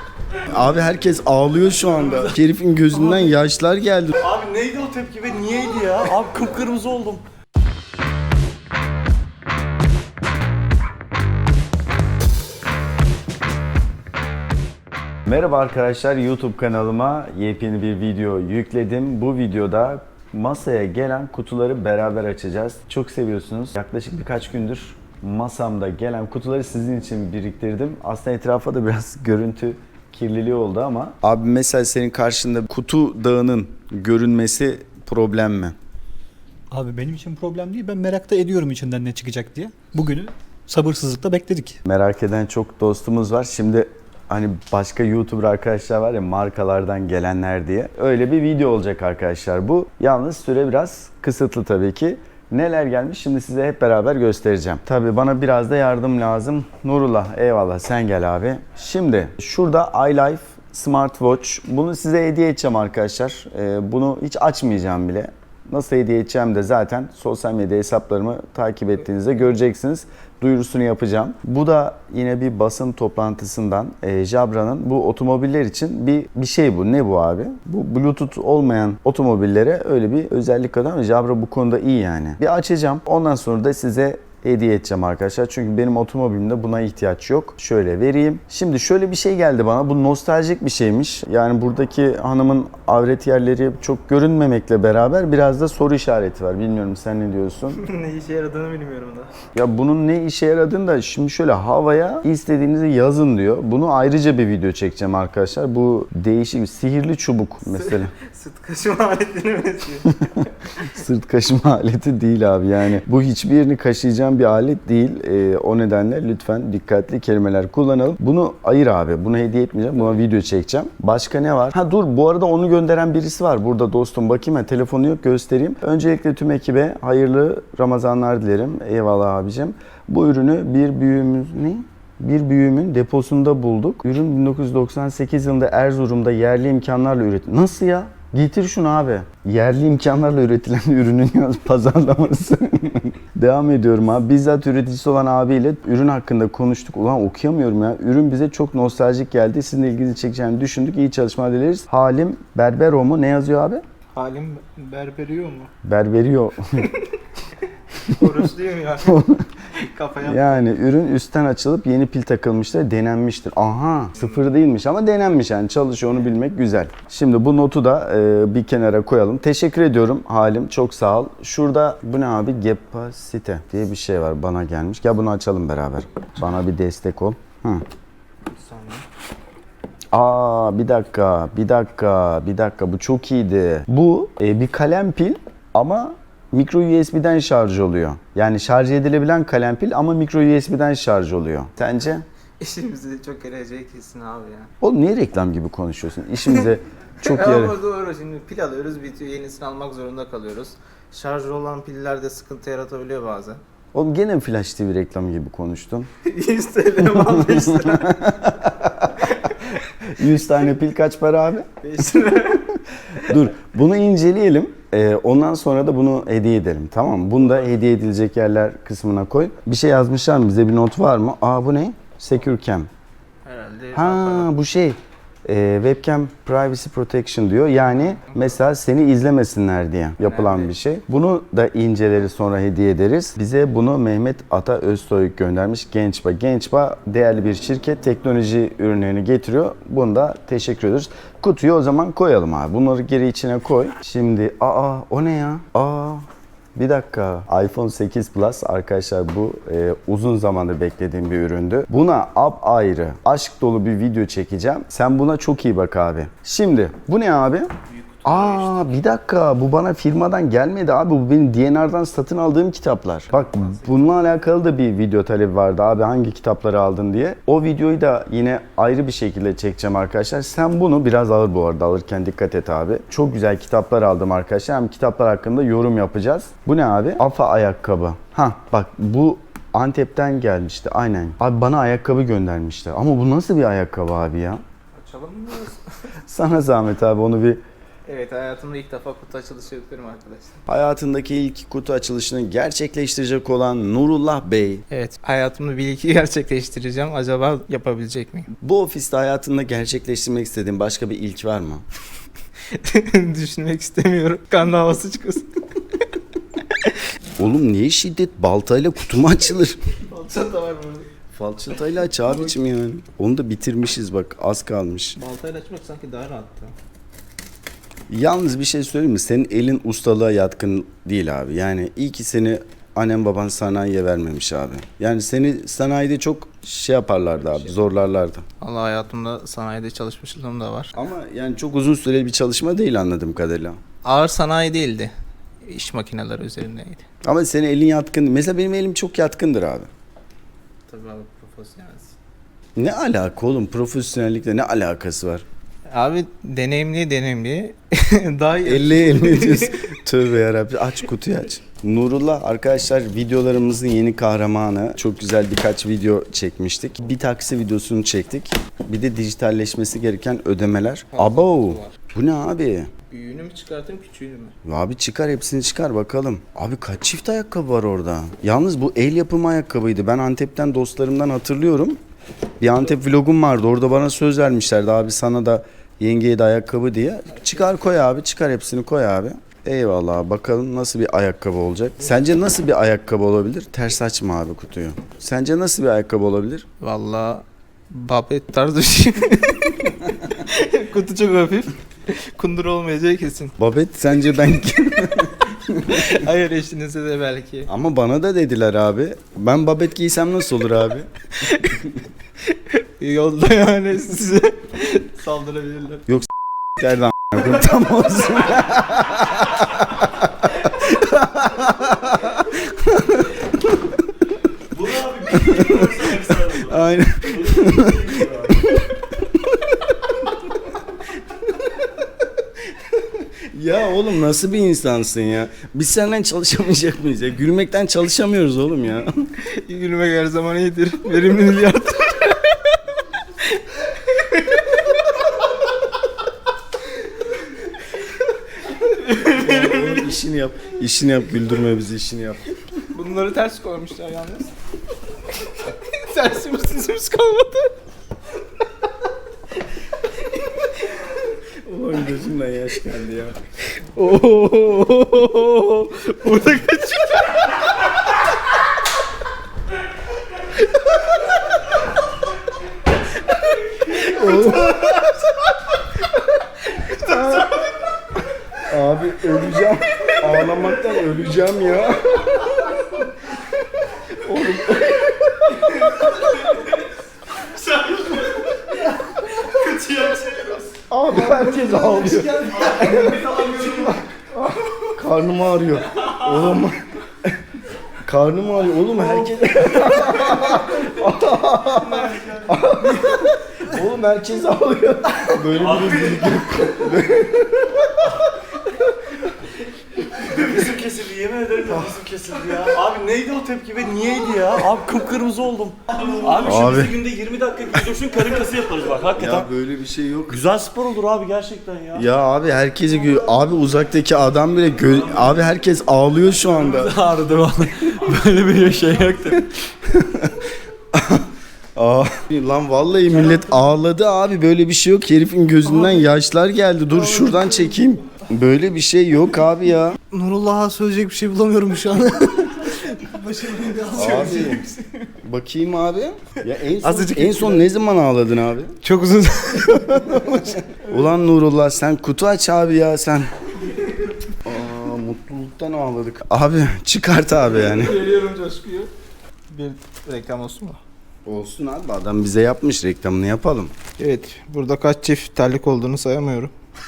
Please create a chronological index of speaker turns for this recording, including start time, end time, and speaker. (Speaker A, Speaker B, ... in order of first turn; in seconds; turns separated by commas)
Speaker A: 0.5-4.2, Speaker B: 4.2-7.2, Speaker A: 15.2-35.7, Speaker C: 36.7-41.8, Speaker A: 41.8-97.8, Speaker D: 97.8-99.3, Speaker A: 99.5-108.1, Speaker D: 107.7-110.5, Speaker A: 110.9-153.8, Speaker D: 154.1-155.7, Speaker A: 155.8-156.8, Speaker D: 158.1-159.2, Speaker A: 159.1-159.4, Speaker D: 159.8-160.7, Speaker A: 160.2-177.8, Speaker D: 178.5-179.0, Speaker A: 180.1-192.2, Speaker D: 192.6-194.7, Speaker A: 194.8-197.8, Speaker D: 197.2-203.6, Speaker A: 203.9-206.1, Speaker D: 206.2-208.3, Speaker A: 207.0-209.2, Speaker D: 209.2-209.6, Speaker A: 210.0-212.4, Speaker D: 211.8-213.4, Speaker A: 213.2-222.9, Speaker D: 223.4-224.5, Speaker A: 223.9-257.7, Speaker D: 230.2-230.7, Speaker D: 257.9-259.0, Speaker A: 258.2-284.6, Speaker D: 263.3-264.1, Speaker D: 284.9-285.8, Speaker A: 286.3-287.6, Speaker D: 288.1-290.6, Speaker A: 290.6-294.8, Speaker D: 294.9-298.5, Speaker A: 298.6-301.8, Speaker D: 302.7-305.4, Speaker A: 307.4-309.8, Speaker D: 309.9-311.1, Speaker A: 311.3-315.2, Speaker D: 315.1-316.7, Speaker A: 318.1-328.4, Speaker D: 327.4-327.8, Speaker D: 328.6-330.9, Speaker A: 330.9-333.8, Speaker D: 334.0-337.0, Speaker A: 337.2-339.9, Speaker D: 340.9-342.1, Speaker A: 342.8-345.4, Speaker D: 345.9-349.8, Speaker A: 348.6-362.9, Speaker D: 361.1-361.9, Speaker D: 363.1-364.5, Speaker A: 364.6-372.0, Speaker A: 372.6-386.6, Speaker D: 386.8-393.5, Speaker A: 393.6-396.2, Speaker D: 395.9-397.7, Speaker A: 397.7-401.1, Speaker D: 401.4-401.8, Speaker A: 401.6-401.9, Speaker D: 402.5-406.1, Speaker A: 406.1-414.0, Speaker B: 414.7-418.5, Speaker A: 415.2-420.4, Speaker A: 423.5-429.1, Speaker D: 429.6-432.8, Speaker D: 433.4-435.3, Speaker D: 438.6-440.1, Speaker A: 439.3-442.4, Speaker D: 442.9-444.5, Speaker D: 445.5-447.7, Speaker D: 450.6-450.8, Speaker A: 451.6-453.4, Speaker D: 453.8-457.6, Speaker D: 463.3-465.3, Speaker A: 463.9-465.1, Speaker D: 466.7-467.7, Speaker A: 467.0-467.6, Speaker A: 468.6-472.7, Speaker A: 474.2-476.4, Speaker D: 479.4-480.2, Speaker B: 479.6-480.6, Speaker A: 480.9-487.4, Speaker B: 481.5-484.0, Speaker D: 482.9-483.2, Speaker A: 488.0-498.0, Speaker B: 489.3-489.9, Speaker B: 492.2-492.5, Speaker B: 495.6-496.3, Speaker B: 500.1-509.5, Speaker A: 501.6-501.9, Speaker A: 506.4-506.9, Speaker A: 509.2-510.4, Speaker B: 510.3-512.0, Speaker A: 511.9-517.0, Speaker B: 516.5-519.5, Speaker A: 519.8-530.0, Speaker D: 527.1-527.6, Speaker D: 530.1-534.9, Speaker A: 533.9-534.6, Speaker A: 535.2-538.7, Speaker D: 536.8-537.6, Speaker D: 538.8-541.0, Speaker A: 539.9-543.3, Speaker A: 544.4-548.0, Speaker D: 547.5-548.9, Speaker D: 549.5-550.8, Speaker A: 551.2-553.7, Speaker D: 554.0-556.5